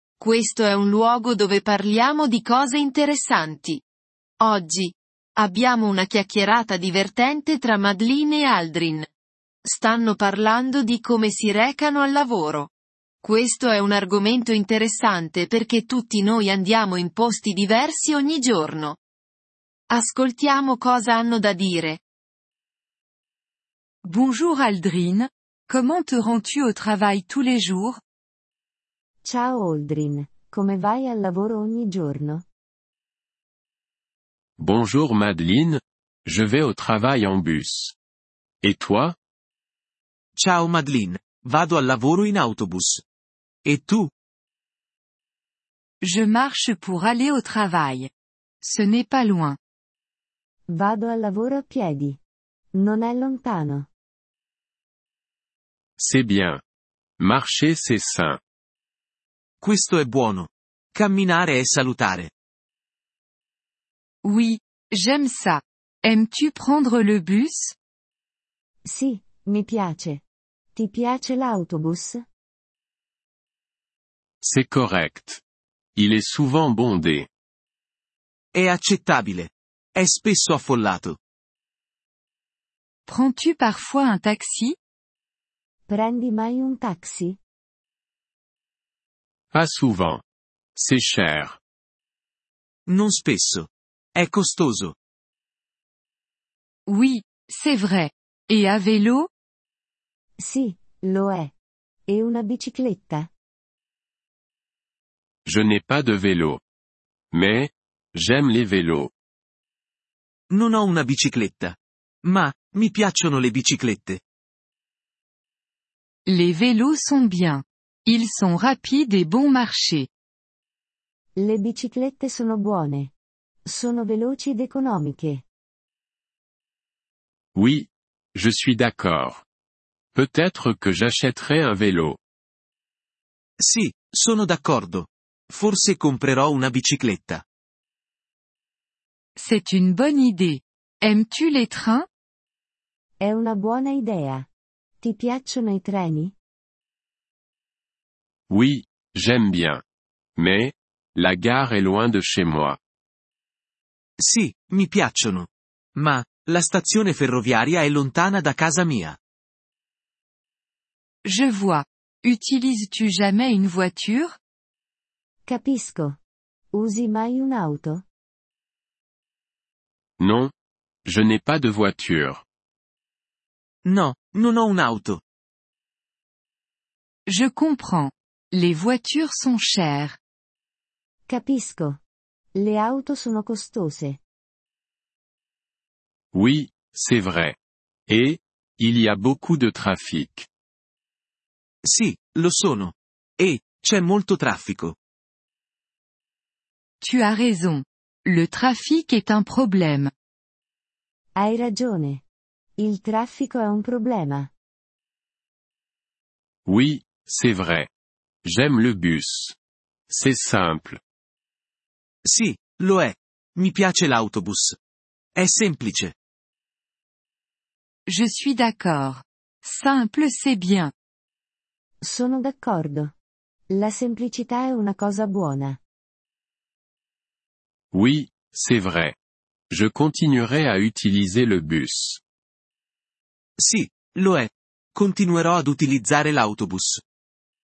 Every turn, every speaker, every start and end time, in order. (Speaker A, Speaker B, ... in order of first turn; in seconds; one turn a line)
Speaker A: 0.2-3.8
Speaker A: 4.4-9.1
Speaker A: 9.6-12.7
Speaker A: 13.2-19.0
Speaker A: 19.9-22.0
Speaker B: 24.0-28.0
Speaker C: 29.2-32.4
Speaker D: 34.6-38.0
Speaker D: 38.6-39.2
Speaker E: 40.4-43.0
Speaker E: 43.6-44.1
Speaker B: 46.0-48.1
Speaker B: 48.6-49.6
Speaker C: 50.7-52.2
Speaker C: 52.8-53.9
Speaker D: 56.0-56.6
Speaker D: 57.2-58.4
Speaker E: 59.6-62.3
Speaker B: 64.2-67.8
Speaker C: 68.9-70.2
Speaker C: 70.8-72.2
Speaker D: 74.4-75.4
Speaker D: 76.0-77.3
Speaker E: 78.5-81.2
Speaker B: 83.1-84.8
Speaker C: 85.9-87.4
Speaker D: 89.5-90.2
Speaker D: 90.8-91.6
Speaker E: 92.9-94.9
Speaker B: 96.9-99.3
Speaker C: 100.4-101.5
Speaker C: 102.1-103.3
Speaker D: 105.5-106.6
Speaker D: 107.3-109.1
Speaker E: 110.5-114.2
Speaker B: 116.3-120.1
Speaker C: 121.4-123.1
Speaker C: 123.7-125.4
Speaker D: 127.5-129.4
Speaker D: 130.1-132.2
Speaker E: 133.6-137.4
Speaker B: 139.3-142.1
Speaker C: 143.2-144.5
Speaker C: 145.0-146.3
Speaker D: 148.5-149.8
Speaker D: 150.4-152.8
Speaker E: 154.2-159.2
Speaker B: 161.2-164.4
Speaker C: 165.5-166.2
Speaker C: 166.7-168.0
Speaker D: 170.2-170.5
Speaker D: 171.1-172.4
Speaker E: 173.8-175.2
Speaker B: 177.3-180.2
Speaker C: 181.3-182.0
Speaker C: 182.6-184.2
Speaker D: 186.3-187.6
Speaker D: 188.1-190.5
Speaker E: 191.8-195.0
Speaker B: 197.0-200.1
Speaker C: 201.3-202.2
Speaker C: 202.8-204.5
Speaker D: 206.7-207.9
Speaker D: 208.4-209.6
Speaker D: 210.1-211.0
Speaker E: 212.2-214.8
Speaker E: 215.3-216.1
Speaker B: 218.1-220.9
Speaker C: 222.0-223.1
Speaker C: 223.7-225.8
Speaker D: 227.9-229.2
Speaker D: 229.7-232.2
Speaker E: 233.6-237.0